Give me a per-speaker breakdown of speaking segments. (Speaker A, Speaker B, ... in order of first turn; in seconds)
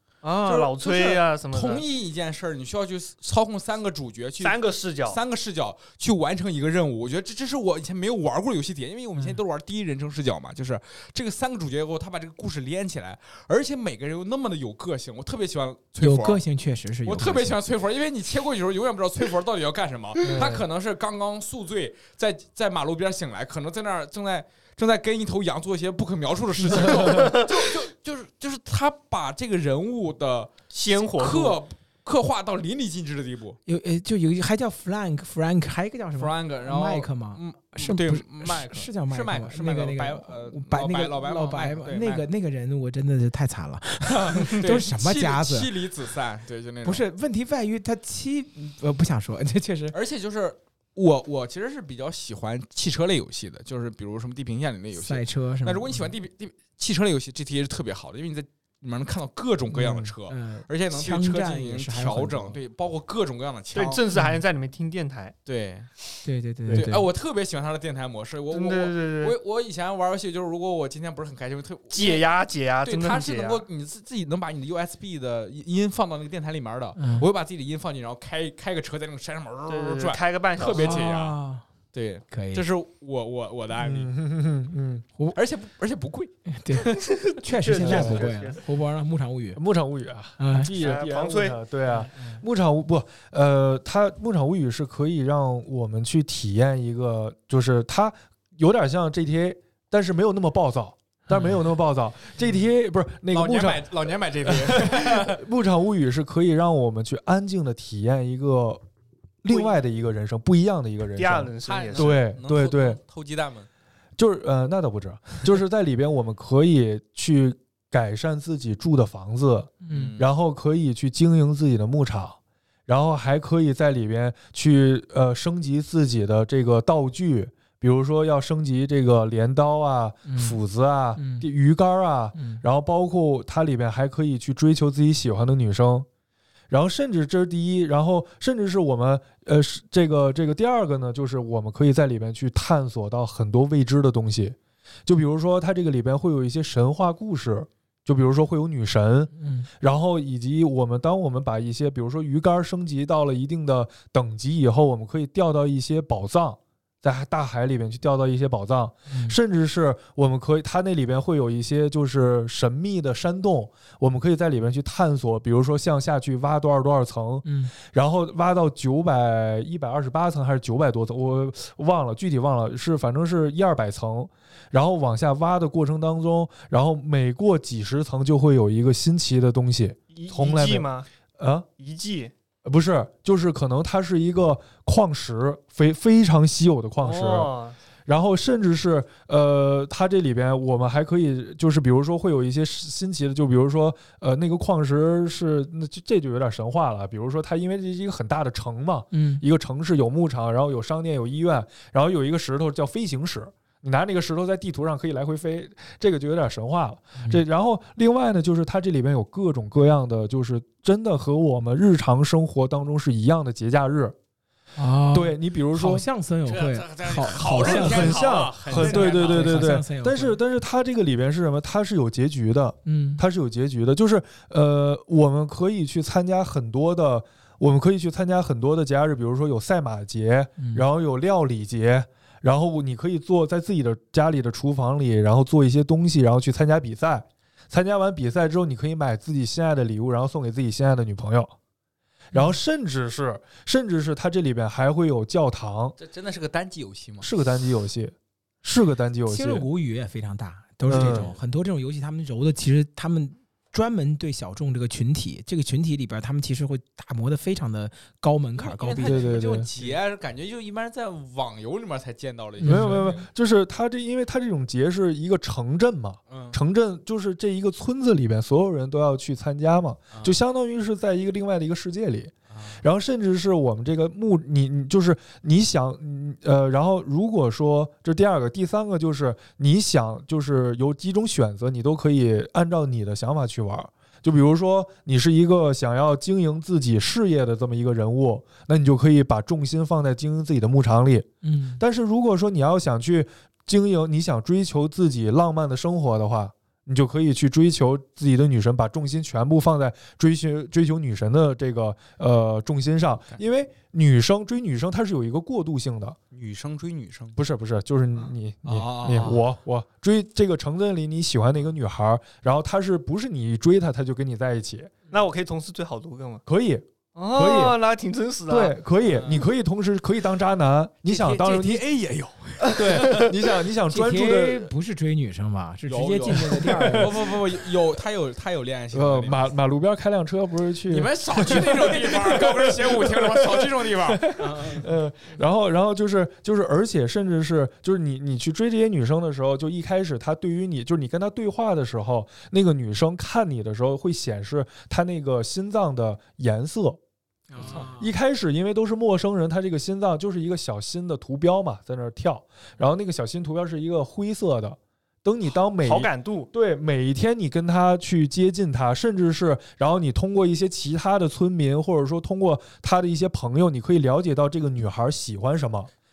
Speaker A: 0.2-1.8, 4.4-5.2, 30.7-31.6, 63.7-65.3, 68.5-69.3, 71.9-73.7, 79.7-81.0, 87.0-88.6, 90.8-91.6, 109.5-109.8, 111.2-112.2, 180.1-181.1, 181.8-182.3, 187.0-187.8, 315.1-316.4, 317.1-318.8, 322.6-323.3, 355.8-356.5
Speaker B: 0.4-16.4, 17.0-33.6, 36.1-42.3, 44.0-47.0, 49.9-64.0, 65.5-65.9, 66.7-72.3, 72.8-81.4, 81.9-84.1, 85.3-86.3, 103.3-105.4, 111.7-113.7, 119.9-120.3, 216.4-219.7, 246.0-247.3, 250.8-251.4, 258.6-263.2, 266.3-266.6, 270.1-270.4, 272.5-272.8, 306.3-307.4, 308.6-309.5, 319.0-319.4, 321.0-323.3, 325.9-329.5, 330.9-334.4
Speaker C: 16.0-17.6, 33.6-45.7, 46.8-50.0, 54.9-56.1, 59.7-62.6, 64.1-64.4, 66.2-67.1, 77.0-77.3, 80.6-81.6, 82.3-82.6, 86.5-89.6, 90.4-90.7, 101.3-101.6, 119.8-120.1, 130.3-130.6, 131.2-131.5, 132.3-132.6, 149.4-149.7, 159.1-159.4, 167.4-167.7, 199.1-199.4, 214.8-220.4, 222.8-223.2, 230.6-230.9, 242.3-242.6, 249.3-259.9, 262.6-263.1, 291.4-291.8, 323.9-327.2, 334.4-334.9, 347.5-348.1
Speaker D: 20.2-20.6, 83.8-85.0, 87.8-88.2, 89.5-103.9, 104.4-108.8, 109.4-113.0, 114.2-136.1, 136.7-180.8, 181.4-181.7, 182.7-187.5, 188.1-214.2, 215.1-216.0, 217.4-241.5, 242.3-245.9, 247.2-249.7, 250.8-251.3, 259.0-259.7, 262.6-291.3, 291.8-306.2, 307.4-314.9, 316.4-317.8, 318.5-321.9, 322.7-324.7, 326.6-327.2, 328.9-347.0, 347.6-365.9